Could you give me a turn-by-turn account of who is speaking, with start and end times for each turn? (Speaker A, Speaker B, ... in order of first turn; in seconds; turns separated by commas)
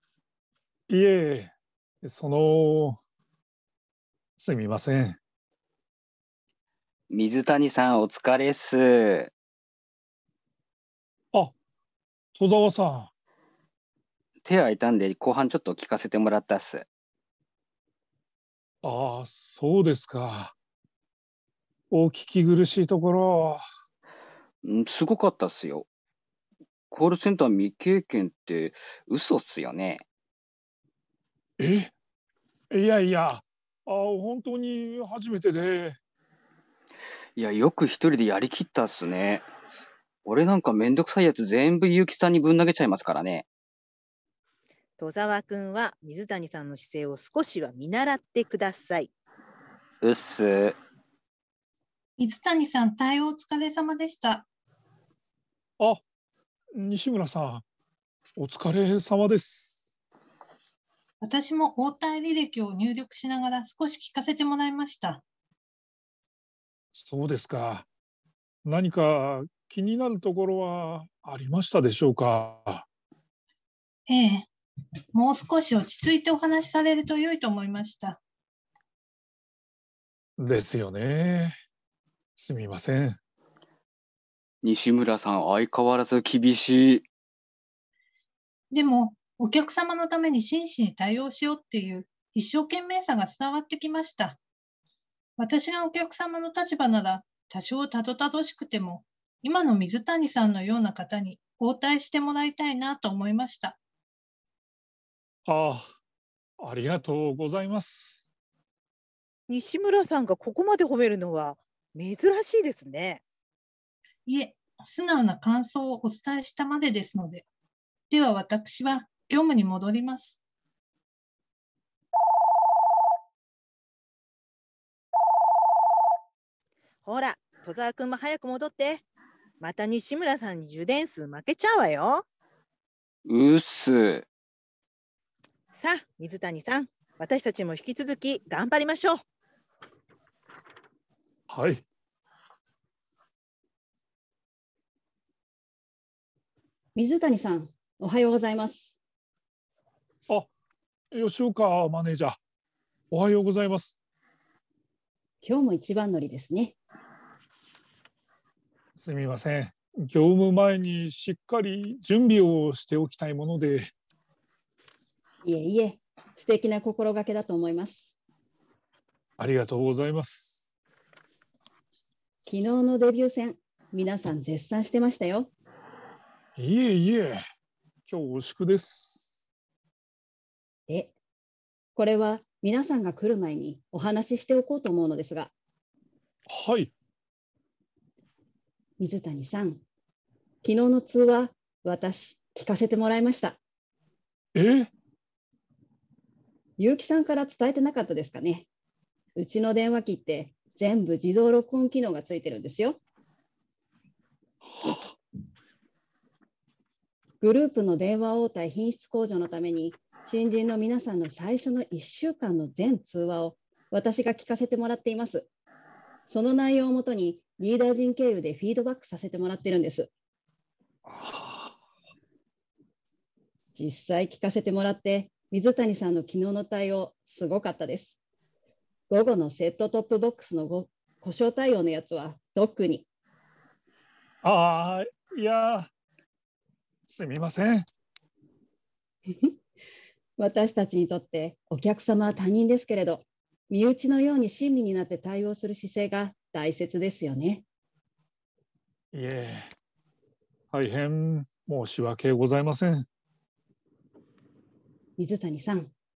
Speaker A: 0.9-3.0, Speaker A: 4.4-5.2, Speaker B: 7.1-9.3, Speaker A: 12.3-13.1, Speaker B: 14.4-16.9, Speaker A: 18.8-20.5, Speaker A: 21.9-23.6, Speaker B: 24.6-25.9, Speaker B: 26.9-30.0, Speaker A: 31.6-31.9, Speaker A: 32.7-36.0, Speaker B: 37.4-39.5, Speaker B: 40.2-43.5, Speaker C: 45.0-49.1, Speaker B: 50.0-50.8, Speaker D: 52.2-54.5, Speaker A: 56.8-57.6, Speaker A: 58.4-59.9, Speaker D: 61.2-65.2, Speaker A: 66.9-67.9, Speaker A: 68.7-72.9, Speaker D: 74.1-74.5, Speaker D: 75.1-78.2, Speaker A: 80.4-81.5, Speaker A: 82.4-83.2, Speaker B: 84.6-87.1, Speaker D: 88.7-94.4, Speaker D: 95.4-103.8, Speaker A: 105.5-105.9, Speaker A: 106.6-108.3, Speaker C: 109.5-113.2, Speaker D: 114.3-117.5, Speaker D: 118.1-120.4, Speaker C: 127.0-129.0, Speaker C: 129.6-132.2, Speaker B: 133.3-134.3, Speaker C: 135.8-139.2, Speaker A: 141.5-141.8, Speaker E: 147.0-149.0, Speaker A: 151.1-152.4, Speaker A: 153.1-154.0, Speaker E: 155.4-156.8, Speaker A: 158.9-163.9, Speaker E: 165.4-168.1, Speaker A: 169.4-170.7, Speaker E: 172.5-175.5, Speaker A: 176.6-177.4, Speaker A: 178.1-179.4, Speaker E: 180.9-181.2, Speaker E: 181.9-185.5, Speaker A: 186.5-186.9, Speaker E: 189.0-189.8, Speaker E: 190.6-193.6, Speaker A: 194.6-194.9, Speaker E: 196.8-198.7, Speaker E: 199.4-203.0, Speaker E: 207.4-215.5, Speaker E: 216.3-220.1, Speaker A: 221.1-221.7, Speaker E: 223.8-228.2, Speaker E: 229.1-233.1, Speaker A: 234.4-235.9, Speaker A: 237.1-237.9, Speaker E: 239.3-239.6, Speaker E: 240.4-247.6, Speaker A: 249.1-249.7, Speaker A: 250.7-253.1, Speaker E: 255.2-255.9